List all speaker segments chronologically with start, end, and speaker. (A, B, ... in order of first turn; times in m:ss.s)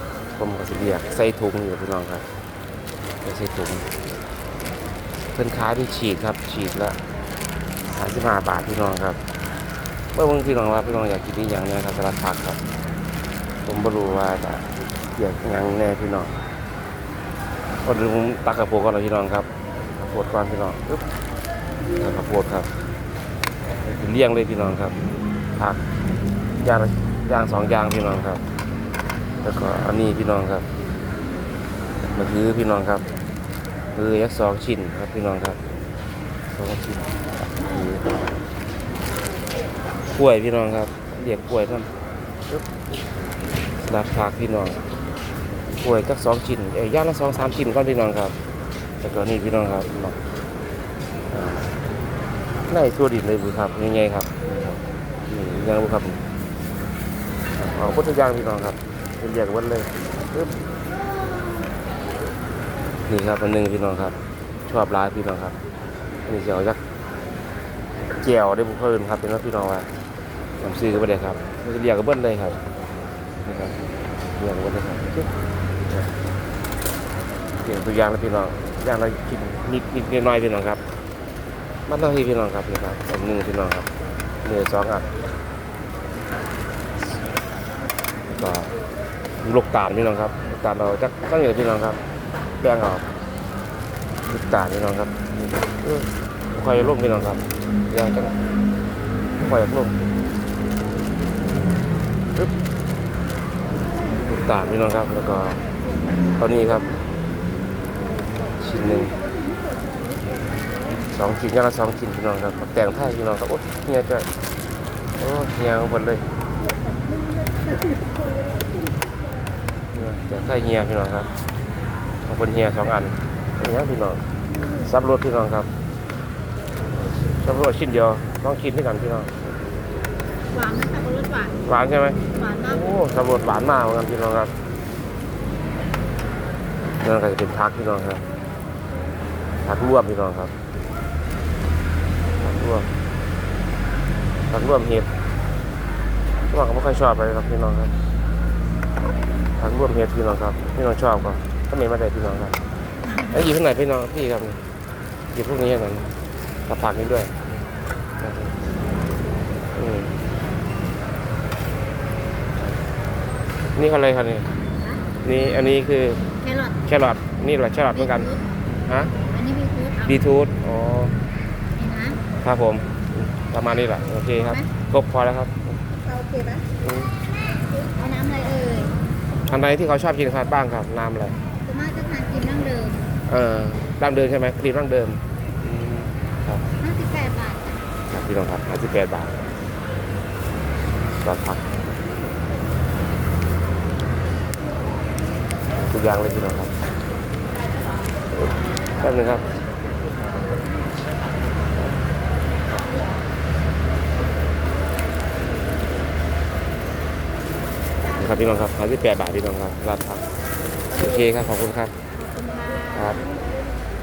0:00.4-0:02.3 A
0:03.2-0:03.9 A
0:05.3-0:07.0 A
0:07.9-0:09.2 A
0:10.1-0:12.6 A
0:13.6-0:16.3 A
0:17.8-0:21.1 A
0:22.0-0:22.7 A
0:23.8-0:25.0 A
0:25.6-0:25.8 A
0:26.6-0:28.4 A
0:29.4-0:30.7 A
0:32.0-0:33.0 A
0:33.9-0:35.6 A
0:36.5-0:38.1 A
0:40.1-0:41.9 A
0:43.8-0:44.8 A
0:45.8-0:48.4 A
0:49.0-0:50.2 A
0:51.3-0:51.7 A
0:52.7-0:56.2 A
0:57.6-1:00.6 A
1:03.1-1:05.6 A
1:06.3-1:06.8 A
1:08.1-1:09.9 A
1:10.6-1:12.6 A
1:13.4-1:13.8 A
1:14.3-1:15.3 A
1:17.6-1:20.8 A
1:21.9-1:23.9 A
1:24.4-1:25.1 A
1:28.3-1:28.7 A
1:29.4-1:32.0 A
1:32.6-1:33.1 A
1:34.3-1:38.4 A
1:39.4-1:40.0 A
1:44.2-1:45.6 A
1:46.3-1:47.0 A
1:48.6-1:49.2 A
1:51.1-1:54.3 A
1:55.2-1:56.3 A
1:59.9-2:01.3 A
2:02.3-2:04.2 A
2:04.8-2:05.7 A
2:07.4-2:09.4 A
2:10.5-2:11.6 B
2:11.6-2:14.5 A
2:12.3-2:12.8 B
2:17.0-2:18.2 A
2:19.6-2:20.5 A
2:22.4-2:22.9 A
2:24.5-2:25.1 A
2:26.5-2:27.9 A
2:29.6-2:32.6 A
2:33.2-2:34.6 A
2:35.3-2:36.1 A
2:36.7-2:37.4 A
2:38.2-2:38.6 A
2:39.7-2:40.2 A
2:43.8-2:44.5 A
2:44.8-2:45.0 B
2:45.2-2:46.2 A
2:46.4-2:46.8 B
2:46.8-2:49.1 A
2:47.9-2:48.4 B
2:49.3-2:50.2 B
2:50.0-2:51.2 A
2:51.8-2:52.2 B
2:52.4-2:55.8 A
2:54.4-2:54.7 B
2:56.0-2:56.7 B
2:56.8-2:57.1 A
2:57.8-2:59.0 B
2:59.5-3:01.4 A
3:01.6-3:03.0 B
3:03.3-3:06.7 A
3:06.8-3:07.8 B
3:08.1-3:09.4 A
3:11.2-3:11.7 A
3:15.8-3:16.7 A
3:18.3-3:19.5 A
3:28.2-3:30.2 A
3:30.9-3:31.9 A
3:32.2-3:33.0 B
3:32.9-3:33.2 A